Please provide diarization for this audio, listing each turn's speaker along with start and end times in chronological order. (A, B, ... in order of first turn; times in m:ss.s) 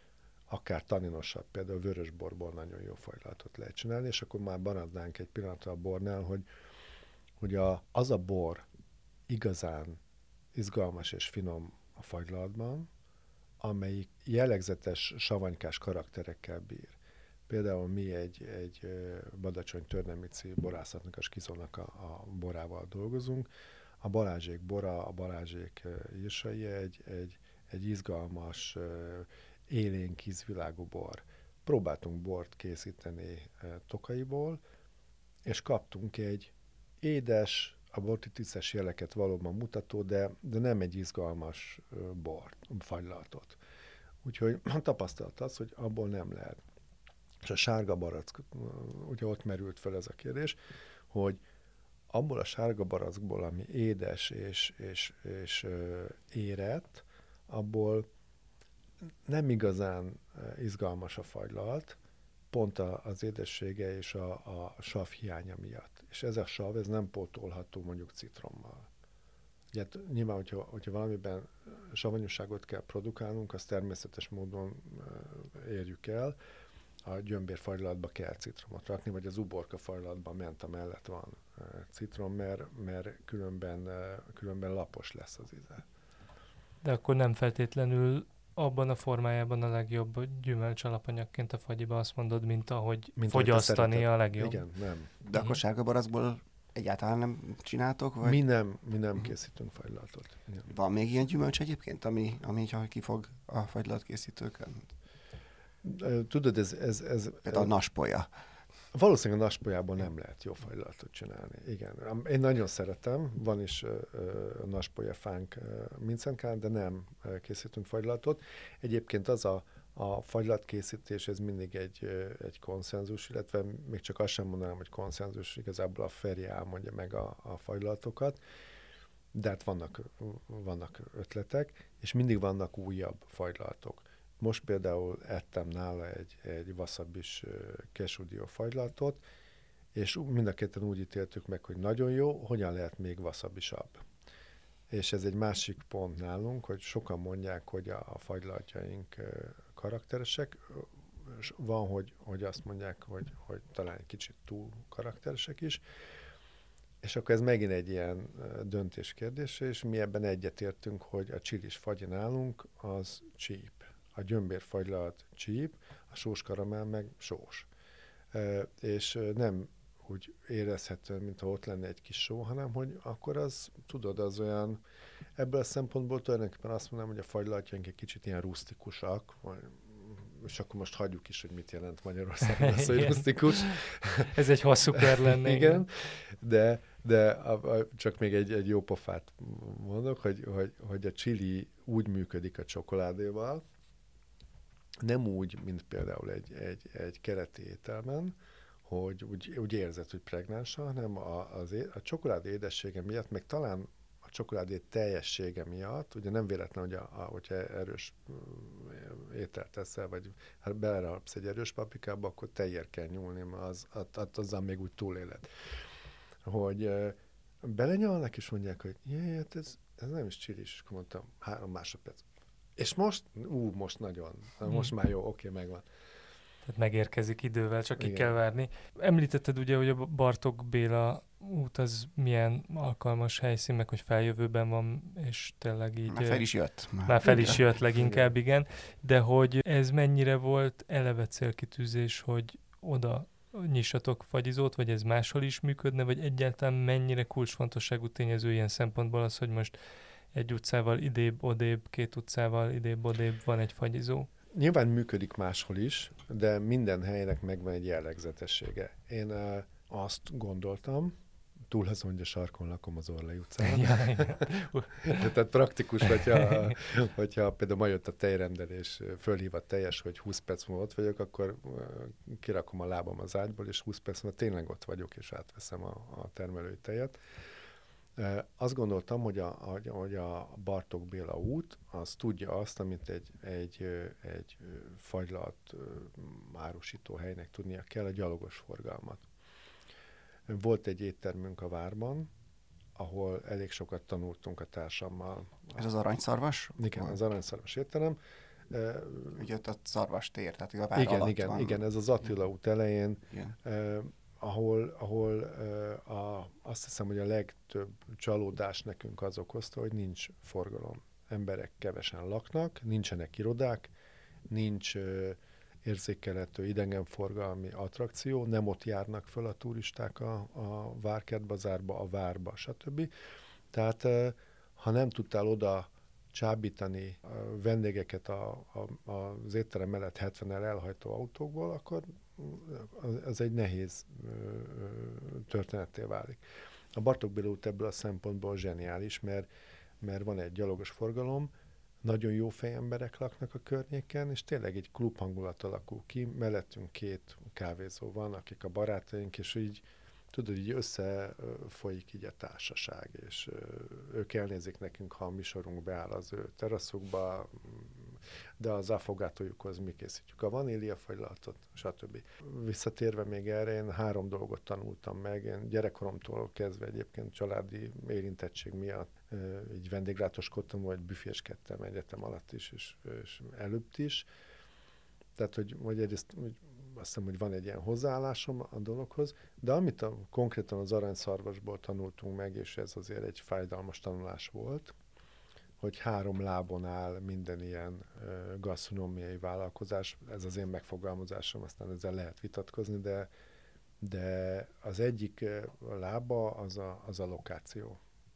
0:00.5-0:06.5 A
0:07.4-0:08.6 A
0:09.3-0:10.0 A
0:10.6-0:12.9 A
0:13.6-0:23.5 A
0:24.0-0:34.6 A
0:35.5-0:43.6 A
0:44.2-0:46.6 A
0:47.4-0:50.6 A
0:51.1-0:51.4 A
0:52.1-0:58.1 A
0:59.3-1:02.0 A
1:02.5-1:08.9 A
1:09.7-1:16.4 A
1:17.0-1:25.8 A
1:26.8-1:34.6 B
1:33.2-1:35.1 A
1:35.2-1:38.4 C
1:35.3-1:35.6 B
1:38.2-1:40.7 A
1:40.7-1:44.9 C
1:45.8-1:47.7 A
1:47.4-1:48.3 C
1:48.9-2:08.4 A
2:09.3-2:19.2 A
2:20.0-2:24.0 A
2:24.9-2:35.8 A
2:37.0-2:47.7 A
2:48.3-2:54.8 A
2:55.4-3:04.4 A
3:02.5-3:05.8 B
3:05.0-3:13.6 A
3:15.0-3:35.8 A
3:36.4-3:42.2 A
3:42.8-3:45.8 A
3:46.7-4:09.8 B
3:48.0-3:48.4 A
3:56.1-3:57.7 C
4:10.3-4:14.3 B
4:14.5-4:21.1 A
4:21.7-4:37.2 A
4:23.6-4:25.3 B
4:38.2-4:49.3 A
4:50.5-4:52.3 A
4:53.0-4:55.8 A
4:55.7-4:57.2 C
4:56.8-4:58.2 A
4:58.7-4:59.4 A
4:59.4-5:01.8 C
5:01.0-5:13.9 A
5:14.5-5:23.1 A
5:23.7-5:36.4 A
5:37.0-5:39.5 A
5:40.0-5:41.5 A
5:42.0-6:14.3 A
6:15.4-6:25.0 A
6:25.8-6:33.3 A
6:34.0-6:38.0 A